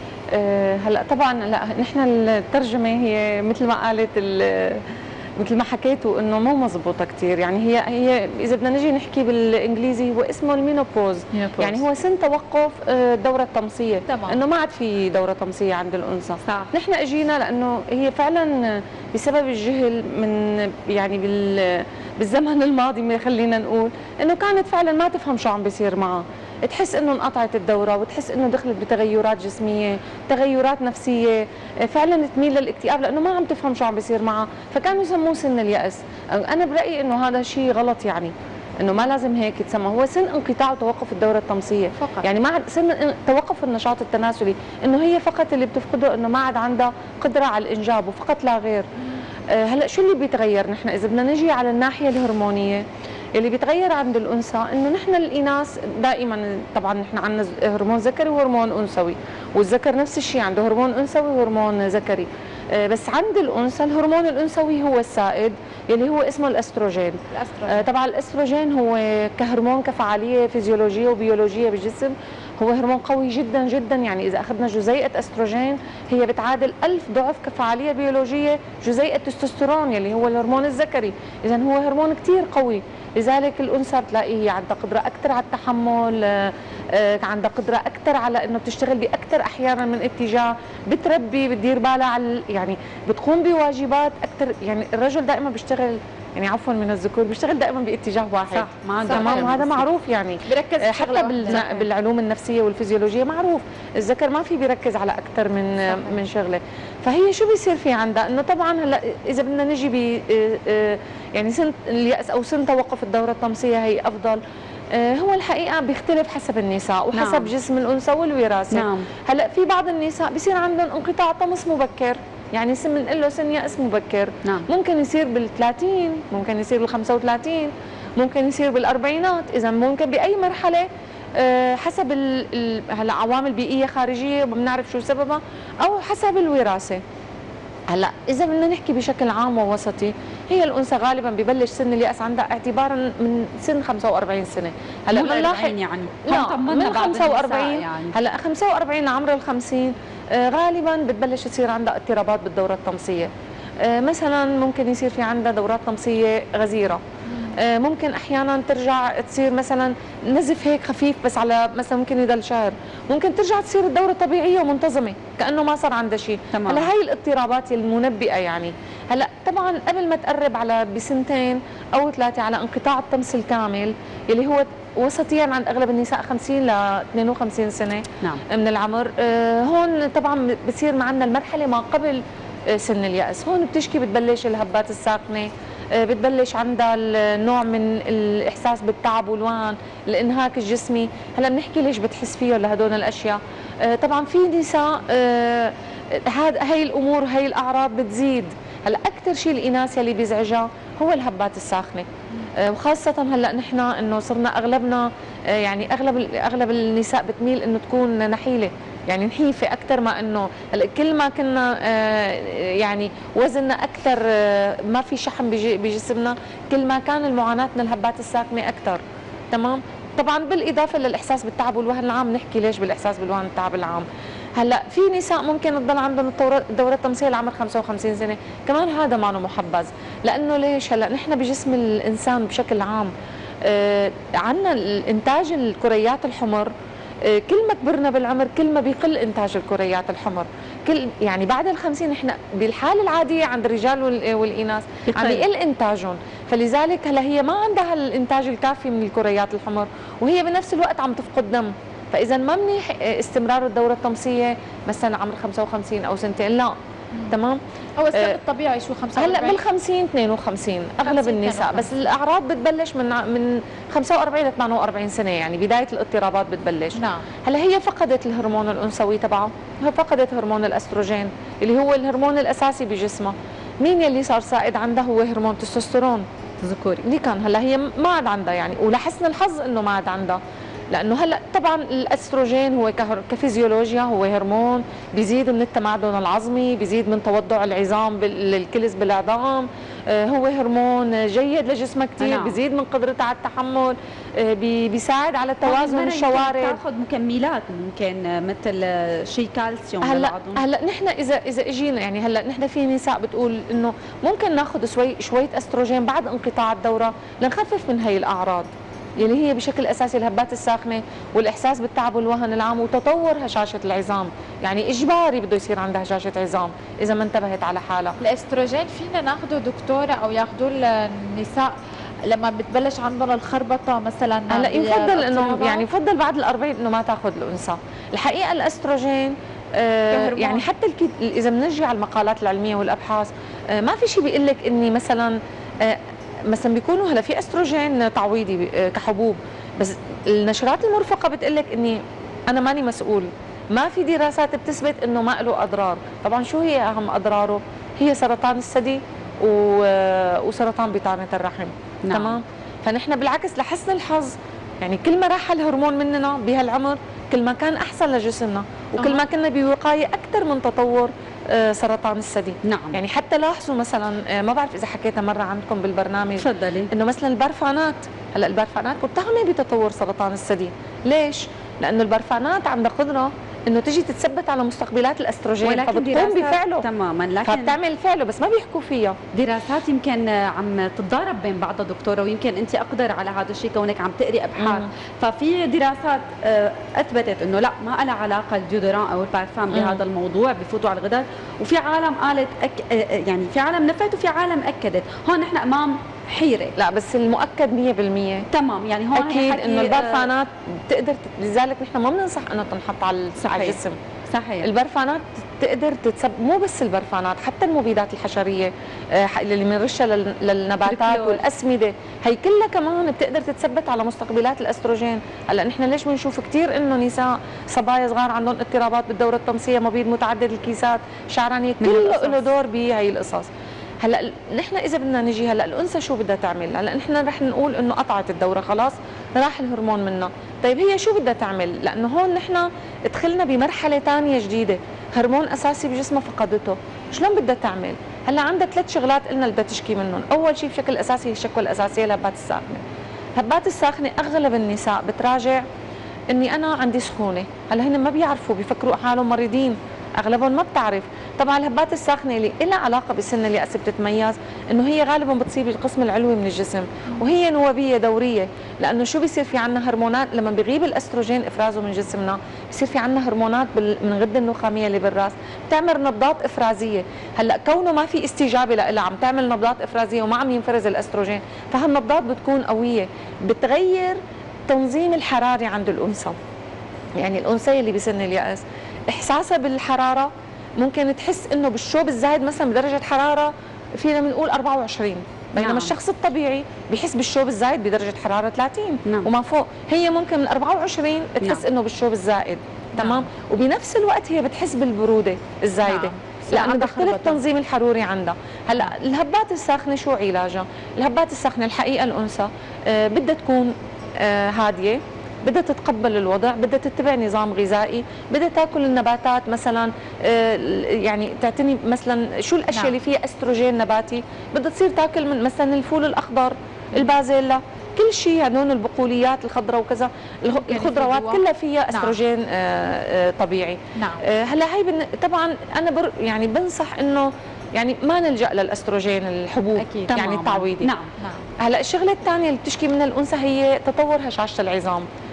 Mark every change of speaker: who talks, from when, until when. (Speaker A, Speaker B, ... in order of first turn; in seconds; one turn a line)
Speaker A: 0.3-4.8
Speaker A: 5.4-48.9
Speaker B: 11.3-11.8
Speaker C: 14.1-14.4
Speaker C: 42.0-42.2
Speaker A: 49.5-52.8
Speaker A: 53.4-114.4
Speaker C: 67.3-67.9
Speaker B: 98.5-99.8
Speaker C: 99.0-99.5
Speaker C: 100.5-101.9
Speaker C: 105.9-106.2
Speaker A: 114.9-130.9
Speaker B: 117.1-117.5
Speaker B: 118.7-119.1
Speaker A: 131.4-137.0
Speaker A: 137.9-153.3
Speaker B: 145.1-148.2
Speaker A: 153.8-157.0
Speaker A: 157.5-202.1
Speaker B: 166.5-166.9
Speaker A: 202.6-233.1
Speaker A: 233.6-236.7
Speaker A: 237.2-256.7
Speaker B: 245.1-245.5
Speaker A: 257.3-257.6
Speaker C: 258.0-259.6
Speaker A: 258.1-258.4
Speaker A: 259.2-276.2
Speaker C: 261.0-262.0
Speaker C: 267.0-267.3
Speaker B: 276.6-277.0
Speaker A: 277.0-280.4
Speaker A: 280.9-296.8
Speaker B: 292.2-292.6
Speaker B: 295.6-300.6
Speaker A: 300.0-318.2
Speaker C: 318.2-321.8
Speaker C: 322.3-325.9
Speaker A: 324.5-376.9
Speaker C: 330.1-330.7
Speaker B: 352.0-352.4
Speaker B: 362.6-363.0
Speaker B: 366.4-366.9
Speaker B: 375.6-377.8
Speaker A: 377.4-379.2
Speaker B: 379.3-396.8
Speaker A: 384.6-384.9
Speaker A: 389.7-390.0
Speaker A: 396.8-398.5
Speaker B: 398.5-400.3
Speaker A: 399.1-404.0
Speaker B: 403.4-404.7
Speaker A: 404.6-423.5
Speaker B: 410.9-411.4
Speaker B: 421.8-422.4
Speaker A: 424.0-442.9
Speaker A: 443.4-445.6
Speaker A: 446.3-476.4
Speaker A: 477.2-530.9
Speaker B: 485.6-485.9
Speaker C: 493.0-493.3
Speaker C: 495.9-497.4
Speaker C: 512.7-513.0
Speaker C: 520.5-522.2
Speaker C: 524.0-524.3
Speaker C: 529.8-530.1
Speaker B: 530.1-531.1
Speaker C: 531.2-531.5
Speaker A: 531.6-535.1